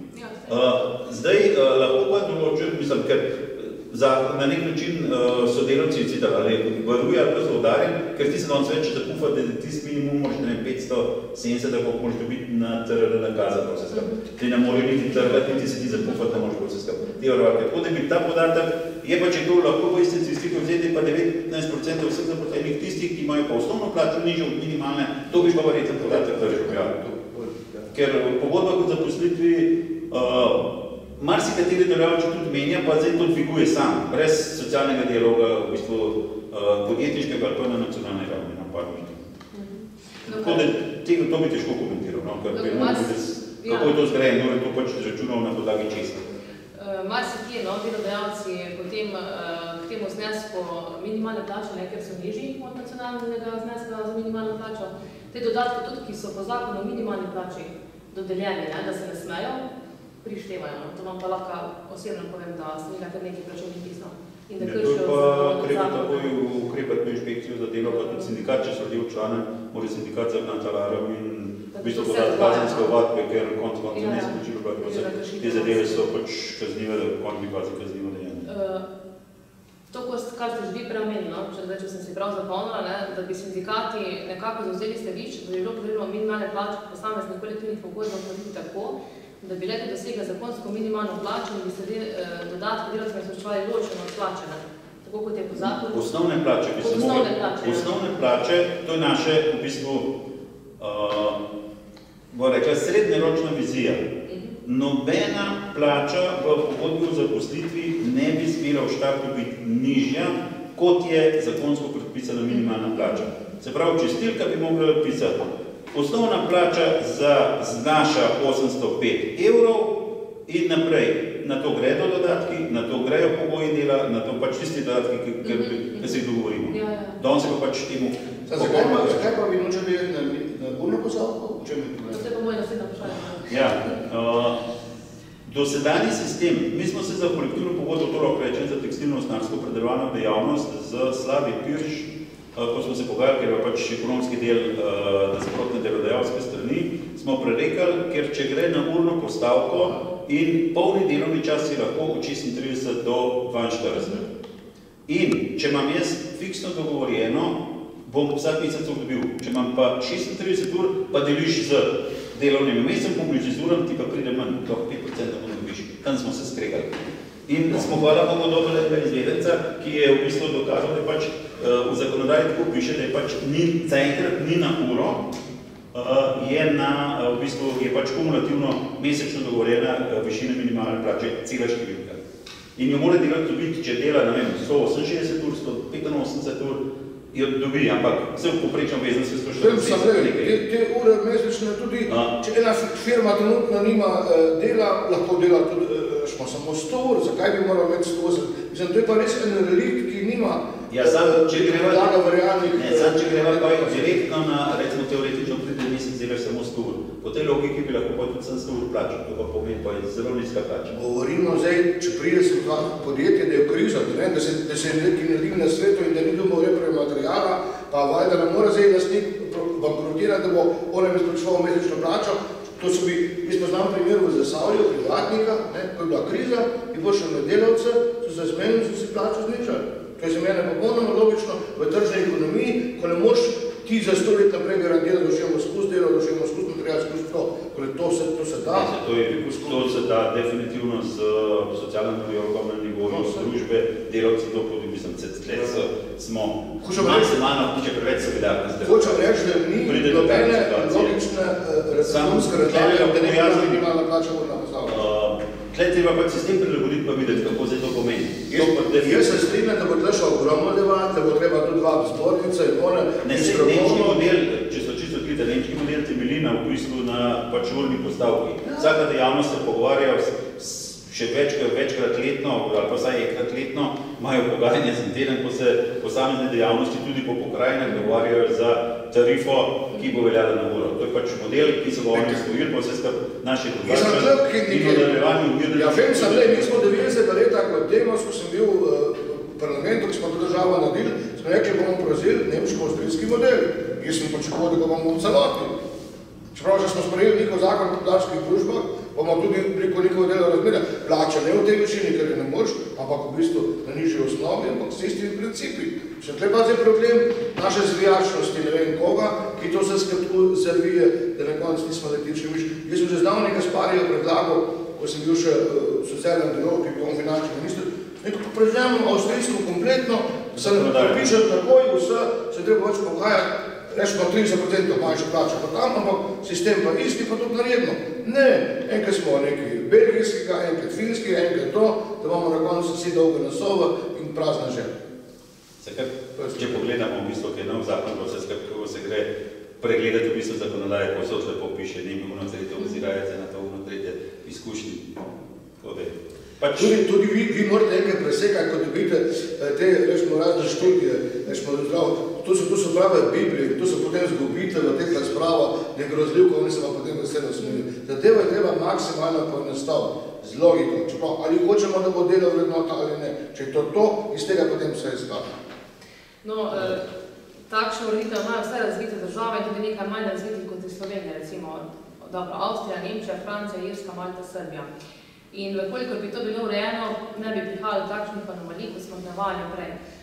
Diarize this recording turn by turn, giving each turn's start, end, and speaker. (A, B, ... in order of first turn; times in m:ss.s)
0:00.1-0:00.8 A
0:00.5-0:26.9 B
0:26.0-0:27.9 C
0:27.9-0:39.3 B
0:39.5-0:40.7 A
0:40.2-0:46.2 B
0:42.5-0:44.0 A
0:46.7-0:59.6 A
1:00.2-1:06.3 A
1:04.6-1:18.5 B
1:07.8-1:08.3 A
1:11.7-1:12.9 A
1:13.9-1:16.1 A
1:18.4-1:18.8 A
1:19.9-1:36.1 A
1:35.6-1:40.1 B
1:36.8-1:37.9 A
1:40.8-1:41.4 B
1:42.3-1:44.0 B
1:44.3-1:44.6 A
1:44.6-2:00.0 B
2:00.5-2:09.2 B
2:05.4-2:06.2 A
2:06.7-2:07.2 A
2:08.5-2:12.2 C
2:12.1-2:14.0 A
2:13.4-2:14.6 B
2:15.4-2:34.2 B
2:35.1-2:55.2 B
2:55.9-3:02.2 B
3:02.8-3:06.8 B
3:07.3-3:10.6 B
3:09.5-3:24.1 C
3:12.1-3:12.3 B
3:20.9-3:22.2 B
3:22.7-3:30.9 B
3:30.9-3:58.9 C
3:58.7-4:11.1 B
3:59.4-4:00.1 C
4:03.1-4:03.5 C
4:06.8-4:07.4 C
4:08.8-4:15.1 C
4:12.0-4:13.8 B
4:14.9-4:19.6 B
4:18.5-4:24.2 C
4:23.2-4:46.9 B
4:28.6-4:28.9 C
4:42.1-4:42.5 C
4:43.8-4:55.7 C
4:56.5-5:34.9 C
5:20.6-5:21.2 B
5:35.8-5:39.3 B
5:36.4-5:36.8 C
5:39.8-5:47.0 B
5:46.7-6:05.5 C
6:06.4-6:07.0 A
6:07.7-6:14.9 A
6:15.5-6:20.0 A